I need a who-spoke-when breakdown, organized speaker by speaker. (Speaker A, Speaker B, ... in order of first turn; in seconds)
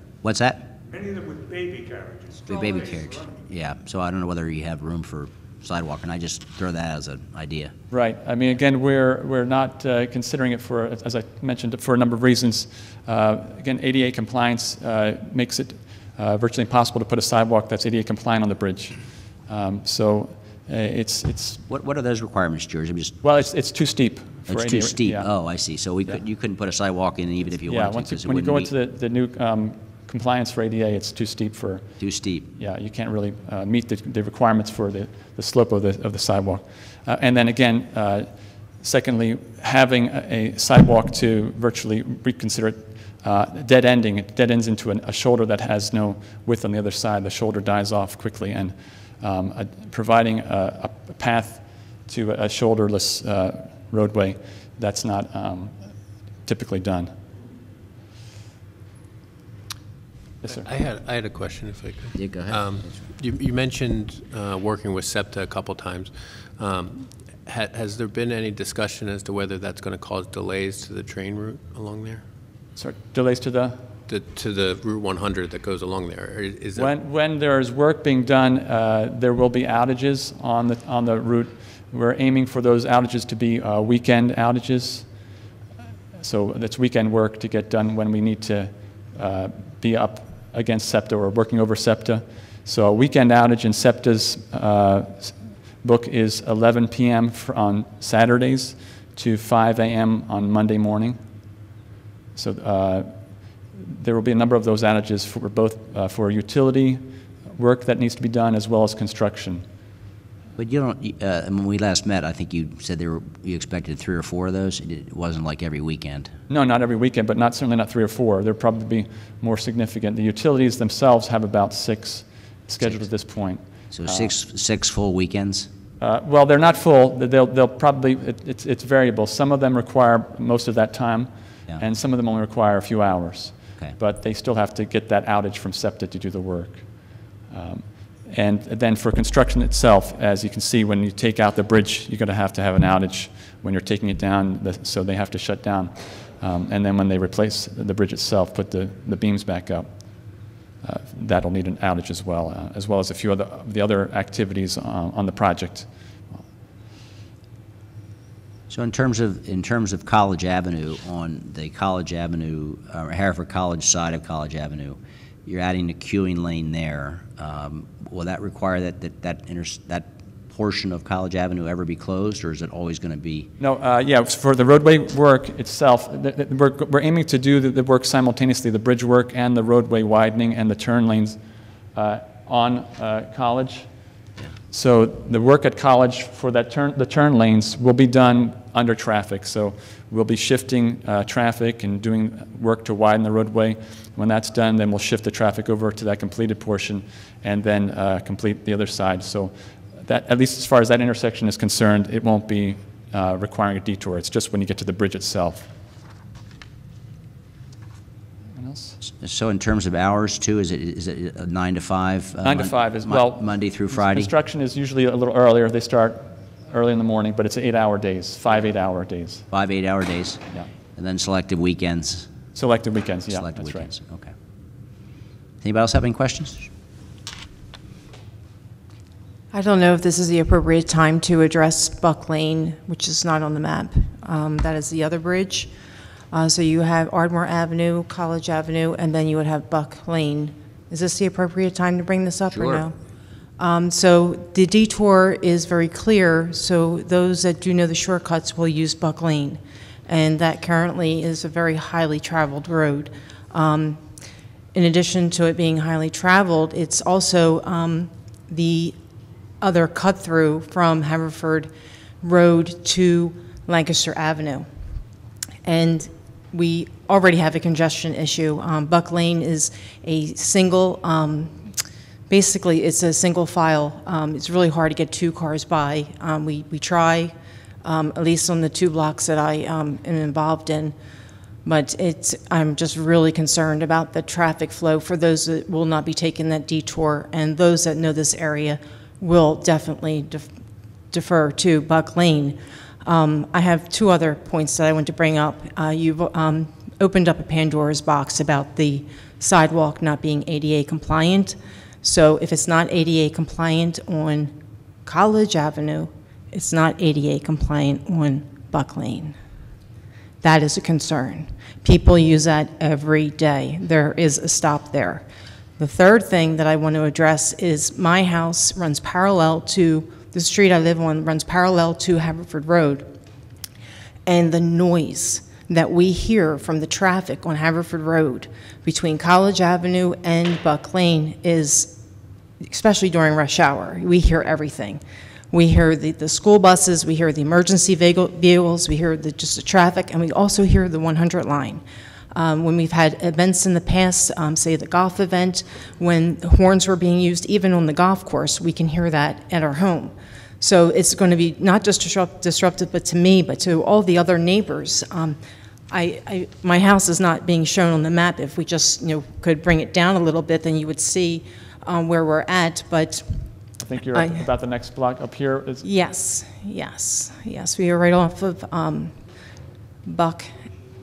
Speaker A: 0.2-0.7, 2.5-7.7, 21.7-23.2, 24.5-28.7, 32.0-32.5, 62.1-63.1, 110.6-116.3, 123.9-125.7, 158.7-173.5, 209.0-214.3, 219.5-220.4, 221.0-222.3, 223.3-224.3, 225.6-226.7, 242.5-242.9
Speaker B: 0.8-3.4
Speaker C: 7.9-21.6, 23.2-25.3, 27.7-31.9, 32.6-55.8, 56.5-57.1, 60.4-60.7, 72.8-73.8, 76.8-85.1, 86.2-101.2, 102.3-103.2, 103.7-109.7, 116.5-124.3, 126.0-136.8, 137.5-149.9, 150.8-155.9, 173.6-181.4, 181.9-183.9, 184.7-205.7, 208.6-209.0, 212.4-219.5, 222.6-223.9, 363.8-365.9
Speaker D: 60.5-72.2, 74.1-76.9
Speaker E: 229.5-235.7, 236.3-242.9, 243.6-254.0, 254.7-258.9, 259.6-261.7, 262.2-264.7, 265.6-271.6, 272.3-277.3, 277.8-280.9, 281.6-290.5, 291.1-304.5, 305.1-309.4, 310.4-315.2, 315.8-323.1, 324.3-331.9, 332.7-341.8, 342.3-355.4, 355.9-363.3, 364.1-364.4, 365.8-369.2, 370.1-370.5